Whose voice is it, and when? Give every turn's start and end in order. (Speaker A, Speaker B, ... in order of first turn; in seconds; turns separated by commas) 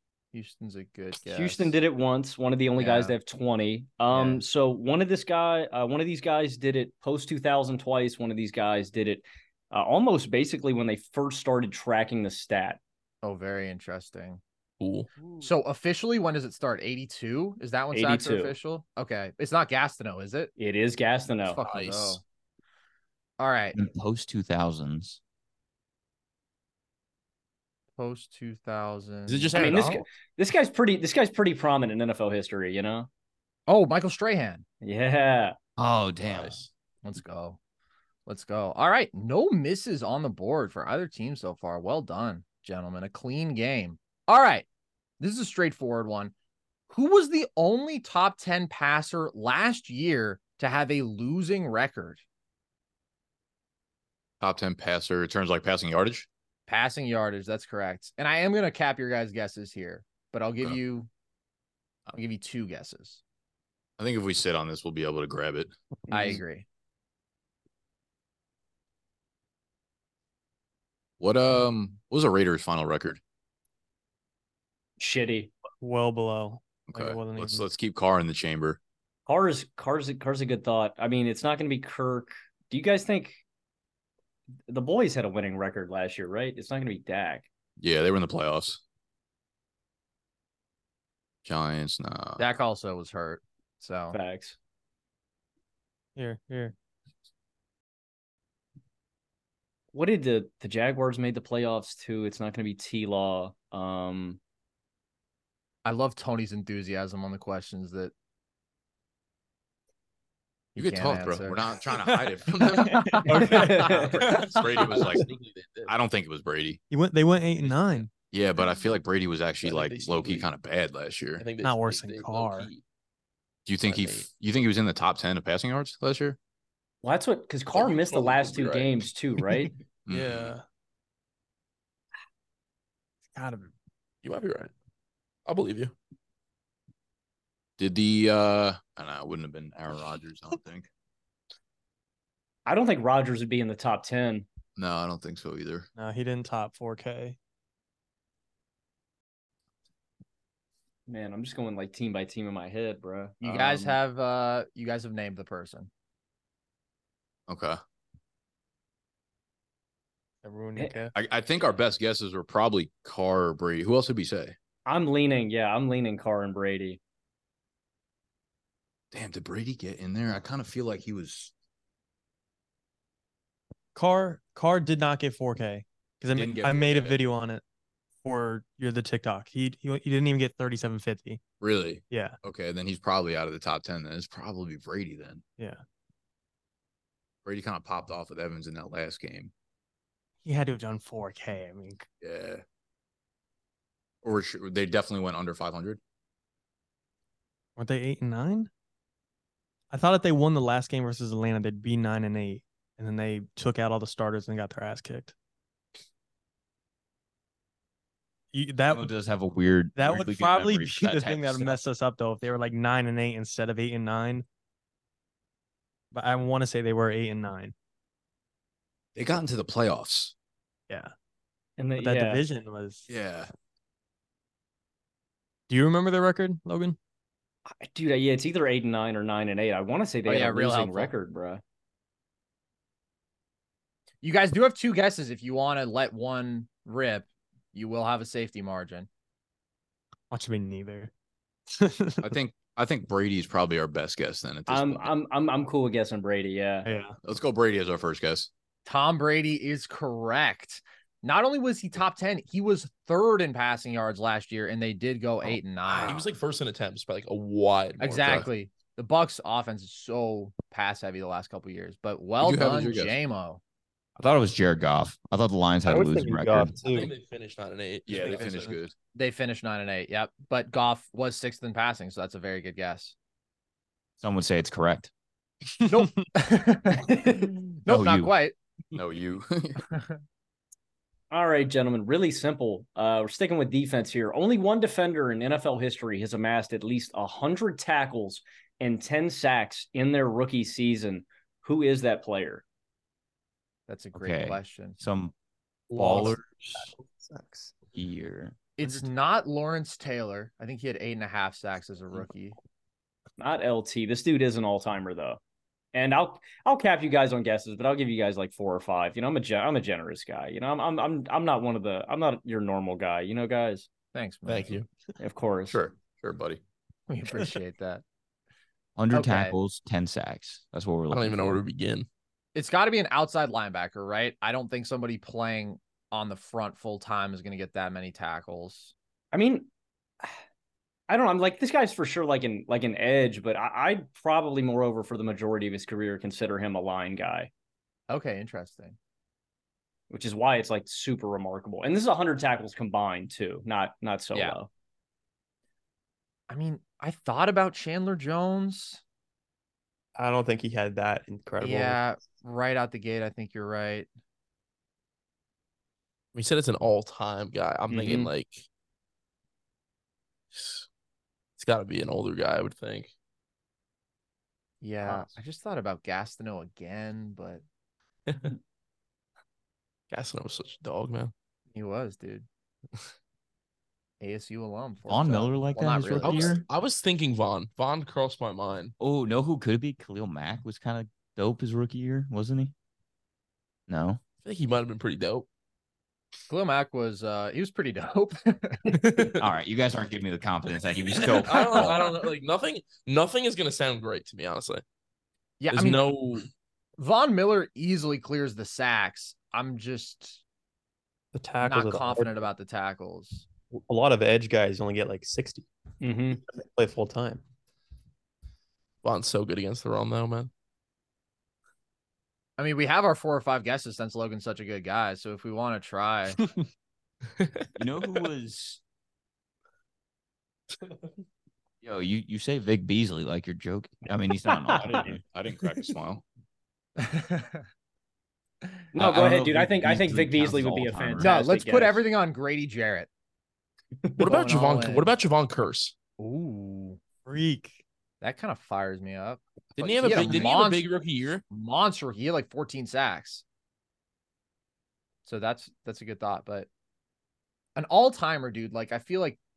Speaker A: 0.3-1.7, Speaker B: 1.2-12.8, Speaker A: 2.8-3.1, Speaker A: 4.1-4.4, Speaker A: 13.2-14.4, Speaker C: 14.8-15.1, Speaker A: 15.4-20.5, Speaker B: 17.9-18.6, Speaker B: 20.6-21.6, Speaker A: 21.4-22.2, Speaker C: 21.6-22.2, Speaker A: 23.4-23.8, Speaker D: 23.7-25.2, Speaker A: 27.9-30.0, Speaker C: 29.2-30.0, Speaker B: 29.5-33.1, Speaker A: 33.7-34.6, Speaker B: 34.8-35.5, Speaker D: 35.8-36.6, Speaker C: 36.2-36.7, Speaker A: 37.0-37.6, Speaker A: 38.3-44.7, Speaker A: 45.2-46.3, Speaker A: 46.9-52.2, Speaker E: 54.4-56.3, Speaker A: 56.7-61.1, Speaker A: 62.1-63.2, Speaker E: 64.0-65.7, Speaker B: 66.1-66.4, Speaker A: 66.1-66.6, Speaker E: 71.2-73.2, Speaker B: 75.0-75.5, Speaker F: 75.8-77.7, Speaker E: 76.9-78.8, Speaker B: 79.3-83.4, Speaker B: 84.7-87.5, Speaker E: 87.8-88.8, Speaker E: 91.4-92.5, Speaker A: 92.4-94.2, Speaker B: 94.1-94.6, Speaker F: 96.2-96.7, Speaker B: 99.9-104.4, Speaker A: 105.8-108.1, Speaker A: 110.7-111.8, Speaker E: 110.8-115.3, Speaker F: 112.1-113.7, Speaker A: 113.0-114.0, Speaker B: 113.5-114.2, Speaker C: 114.2-115.9, Speaker E: 115.8-116.8, Speaker F: 116.9-118.1, Speaker E: 118.3-121.5, Speaker C: 119.6-120.5, Speaker C: 121.4-122.8, Speaker F: 121.6-122.7, Speaker E: 123.7-126.4, Speaker C: 123.8-124.3, Speaker B: 127.0-129.7, Speaker C: 127.7-129.1, Speaker E: 130.1-130.5, Speaker F: 130.1-130.6, Speaker F: 133.3-133.7, Speaker C: 134.2-134.7, Speaker C: 135.5-135.9, Speaker E: 137.8-140.9, Speaker B: 142.7-144.4, Speaker E: 144.8-145.9, Speaker F: 145.9-147.3, Speaker B: 151.1-154.0, Speaker A: 153.4-155.9, Speaker E: 157.5-157.8, Speaker F: 160.4-161.1, Speaker E: 161.1-164.5, Speaker B: 164.8-167.0, Speaker E: 169.1-171.5, Speaker F: 173.9-177.6, Speaker E: 176.3-177.2, Speaker F: 178.2-181.4, Speaker E: 181.6-185.4, Speaker F: 182.1-182.4, Speaker E: 187.4-189.5, Speaker F: 190.4-192.1, Speaker E: 192.2-192.6, Speaker E: 194.2-196.0, Speaker F: 197.8-198.7, Speaker F: 199.9-205.3, Speaker F: 208.5-209.1, Speaker D: 208.9-211.8, Speaker F: 209.9-214.4, Speaker F: 216.1-217.7, Speaker E: 219.2-220.3, Speaker B: 221.8-222.4, Speaker F: 222.0-223.1, Speaker E: 223.1-223.5, Speaker F: 225.7-227.0, Speaker B: 227.8-231.6, Speaker A: 230.2-231.1, Speaker A: 234.2-239.1, Speaker F: 240.3-241.1, Speaker F: 241.7-242.3, Speaker E: 242.2-245.1, Speaker B: 244.7-246.9, Speaker F: 246.8-247.2, Speaker E: 247.2-248.5, Speaker A: 248.8-256.3, Speaker E: 255.9-256.2, Speaker C: 256.0-258.5, Speaker A: 258.0-263.6, Speaker E: 262.4-263.2, Speaker D: 264.2-266.7, Speaker G: 265.9-267.1, Speaker C: 266.8-268.8, Speaker E: 268.1-268.9, Speaker A: 269.1-273.1, Speaker D: 274.2-275.1, Speaker A: 275.9-278.5, Speaker F: 276.0-276.2, Speaker D: 277.9-278.3, Speaker E: 278.9-279.8, Speaker B: 281.3-292.6, Speaker A: 293.9-295.0, Speaker D: 294.1-295.3, Speaker G: 295.9-297.7, Speaker D: 295.9-296.9, Speaker D: 297.9-298.5, Speaker A: 298.8-302.6, Speaker B: 303.4-305.4, Speaker B: 305.9-313.9, Speaker A: 314.1-314.8, Speaker C: 314.4-314.9, Speaker B: 315.2-315.8, Speaker E: 315.7-316.6, Speaker A: 317.1-318.0, Speaker D: 319.0-321.6, Speaker A: 319.1-319.6, Speaker C: 321.1-322.1, Speaker A: 322.5-328.9, Speaker B: 329.3-329.7, Speaker B: 331.1-337.5, Speaker A: 338.1-339.0, Speaker B: 340.1-344.7, Speaker A: 346.5-349.0, Speaker G: 350.1-352.0, Speaker A: 351.6-354.1, Speaker C: 356.3-358.6, Speaker B: 357.9-358.3, Speaker C: 360.5-360.9, Speaker C: 361.6-363.1, Speaker A: 364.8-367.6, Speaker C: 368.3-368.5, Speaker C: 370.1-371.3, Speaker A: 371.7-372.4, Speaker A: 374.2-376.6, Speaker D: 375.1-376.6, Speaker C: 376.2-378.9, Speaker D: 379.0-382.7, Speaker D: 383.9-384.2, Speaker C: 384.4-385.5, Speaker A: 386.5-389.3, Speaker D: 389.4-392.1, Speaker C: 391.1-394.8, Speaker A: 395.6-396.1, Speaker C: 395.7-396.5, Speaker A: 397.0-400.4, Speaker G: 401.3-402.3, Speaker A: 401.6-403.4, Speaker G: 403.7-405.7, Speaker B: 406.0-406.4, Speaker G: 406.5-407.4, Speaker C: 409.0-410.5, Speaker A: 412.6-416.4, Speaker C: 417.4-417.6, Speaker D: 417.8-418.8, Speaker D: 421.8-425.2, Speaker E: 424.9-426.2, Speaker A: 427.0-427.6, Speaker B: 428.9-432.0, Speaker D: 428.9-431.3, Speaker A: 431.2-433.1, Speaker C: 434.2-435.9, Speaker A: 434.2-435.1, Speaker A: 436.2-437.0, Speaker F: 437.2-437.8, Speaker A: 438.2-439.4, Speaker C: 439.8-441.4, Speaker D: 439.9-440.5, Speaker A: 440.0-440.9, Speaker A: 441.5-443.4, Speaker A: 445.2-446.7, Speaker A: 447.7-449.4